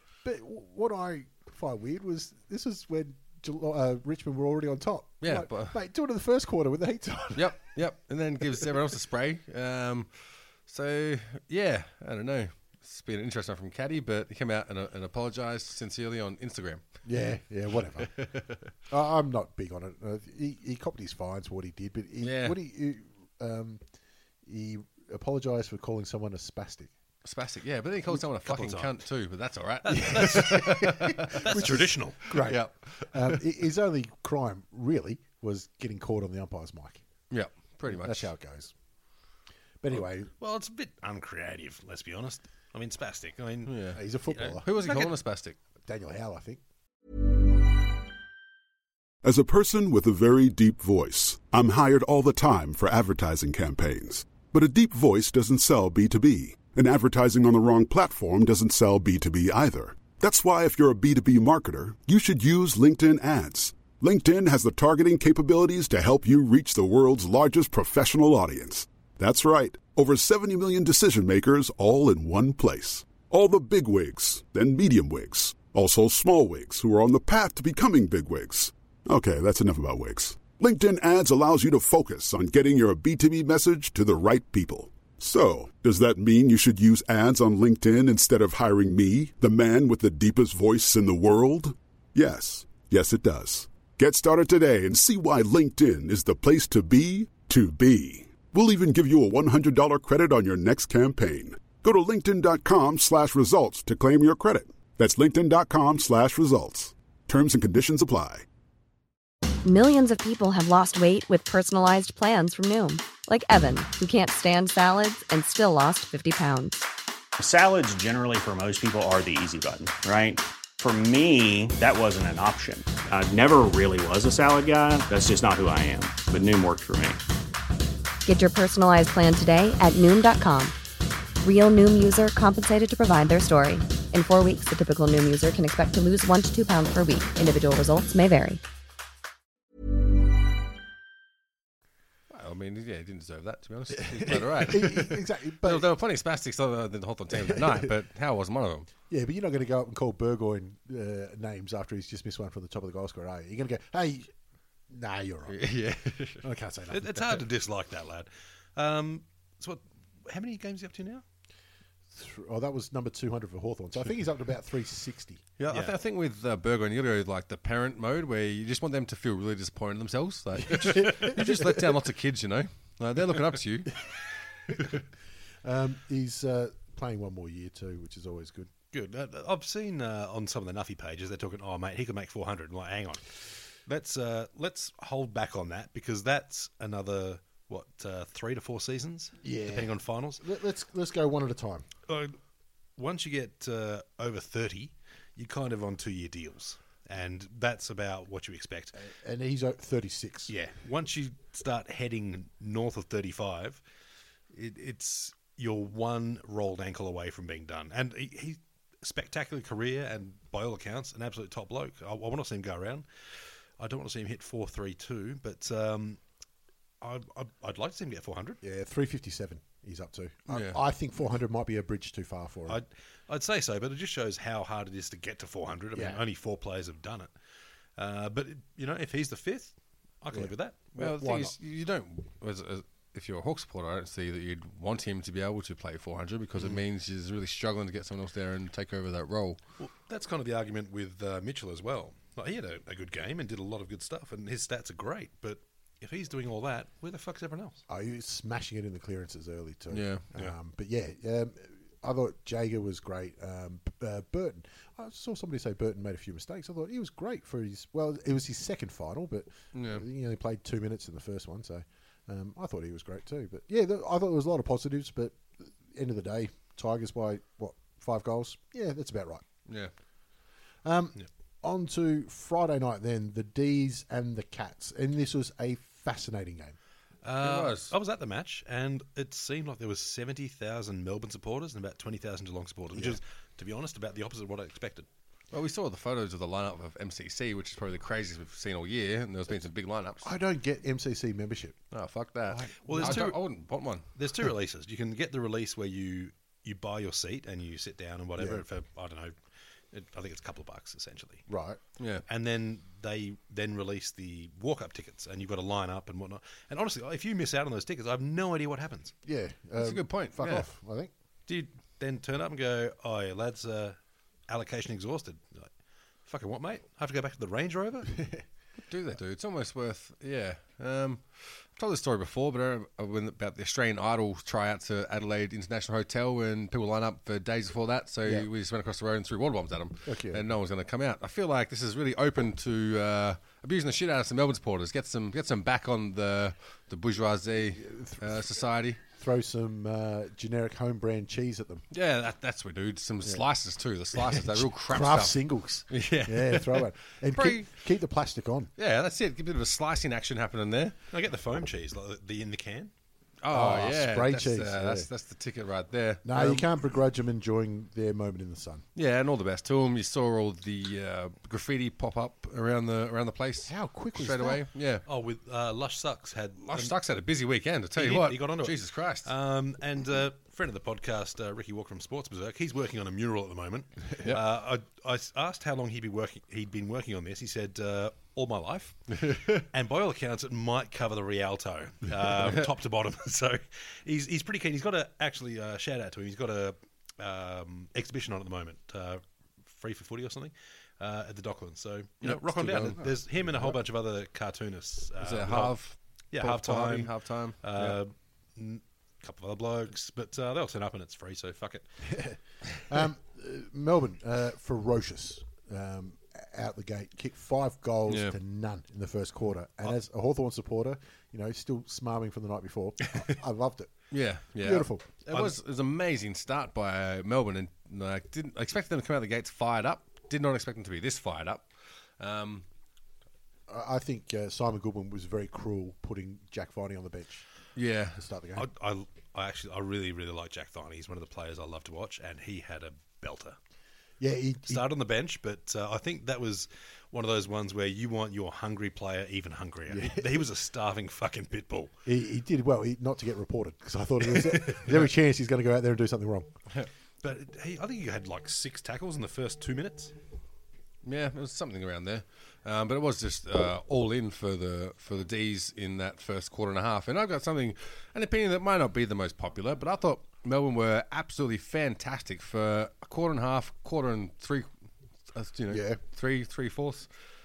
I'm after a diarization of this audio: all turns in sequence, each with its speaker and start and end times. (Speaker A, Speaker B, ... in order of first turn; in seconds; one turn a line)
Speaker A: 0.2-7.5
Speaker B: 5.2-5.8
Speaker B: 7.3-16.9
Speaker A: 17.0-18.1
Speaker B: 18.1-18.7
Speaker A: 18.9-23.8
Speaker B: 22.2-22.6
Speaker A: 24.4-26.9
Speaker B: 27.2-33.4
Speaker C: 28.4-29.0
Speaker C: 29.8-32.3
Speaker A: 29.9-37.0
Speaker B: 37.3-38.3
Speaker A: 37.9-38.7
Speaker A: 39.8-40.3
Speaker C: 40.4-45.1
Speaker B: 43.6-45.6
Speaker A: 43.9-44.7
Speaker A: 45.8-46.6
Speaker D: 49.2-108.4
Speaker E: 109.6-116.9
Speaker F: 117.4-127.2
Speaker E: 128.2-130.7
Speaker E: 131.4-138.6
Speaker B: 142.3-148.9
Speaker A: 143.9-145.9
Speaker A: 147.3-147.9
Speaker A: 149.1-154.3
Speaker A: 154.9-155.6
Speaker B: 155.5-156.4
Speaker A: 156.4-157.4
Speaker C: 156.9-161.2
Speaker A: 162.1-165.5
Speaker B: 165.6-174.0
Speaker C: 165.7-165.9
Speaker A: 170.7-171.7
Speaker A: 175.6-178.7
Speaker C: 178.9-190.4
Speaker A: 189.4-191.9
Speaker C: 192.1-192.3
Speaker C: 193.0-199.0
Speaker A: 199.0-200.5
Speaker C: 200.5-203.8
Speaker C: 204.5-216.2
Speaker C: 217.0-218.6
Speaker A: 218.6-222.8
Speaker B: 220.5-220.8
Speaker C: 222.7-227.3
Speaker A: 225.9-226.2
Speaker C: 228.0-230.9
Speaker A: 230.3-231.5
Speaker B: 230.9-239.6
Speaker C: 239.8-247.8
Speaker A: 247.9-269.4
Speaker B: 249.9-250.2
Speaker B: 259.7-260.0
Speaker B: 269.7-269.9
Speaker A: 270.8-276.8
Speaker C: 277.2-285.1
Speaker B: 277.4-277.9
Speaker A: 282.9-283.2
Speaker B: 285.5-290.3
Speaker A: 290.2-291.8
Speaker B: 291.9-294.1
Speaker A: 292.5-293.3
Speaker C: 292.8-293.4
Speaker C: 294.1-299.3
Speaker A: 298.4-298.6
Speaker C: 299.9-301.5
Speaker A: 301.5-301.8
Speaker B: 302.0-302.2
Speaker C: 302.3-309.1
Speaker A: 309.2-311.1
Speaker B: 309.8-310.7
Speaker C: 311.5-314.0
Speaker C: 314.5-315.7
Speaker C: 316.2-318.2
Speaker B: 318.9-339.0
Speaker A: 330.0-330.4
Speaker A: 337.7-338.4
Speaker A: 339.0-341.8
Speaker B: 341.9-347.7
Speaker A: 344.1-348.7
Speaker B: 348.8-350.9
Speaker C: 351.1-352.9
Speaker B: 353.4-356.7
Speaker A: 353.5-355.1
Speaker A: 356.2-358.8
Speaker B: 358.9-365.0
Speaker A: 363.7-364.6
Speaker C: 365.1-366.9
Speaker B: 366.6-369.3
Speaker C: 367.9-395.8
Speaker B: 379.2-379.6
Speaker B: 392.2-393.7
Speaker B: 395.2-398.0
Speaker C: 396.3-401.9
Speaker A: 402.0-414.0
Speaker B: 408.1-408.4
Speaker B: 414.1-422.6
Speaker A: 414.5-415.2
Speaker A: 423.7-427.4
Speaker B: 427.7-428.2
Speaker A: 428.1-428.7
Speaker C: 428.6-433.6
Speaker A: 434.2-434.8
Speaker C: 434.7-441.9
Speaker A: 439.9-440.4
Speaker A: 442.1-446.5
Speaker C: 444.4-444.9
Speaker C: 447.2-450.1
Speaker B: 451.0-464.7
Speaker B: 465.3-467.1
Speaker A: 465.7-466.0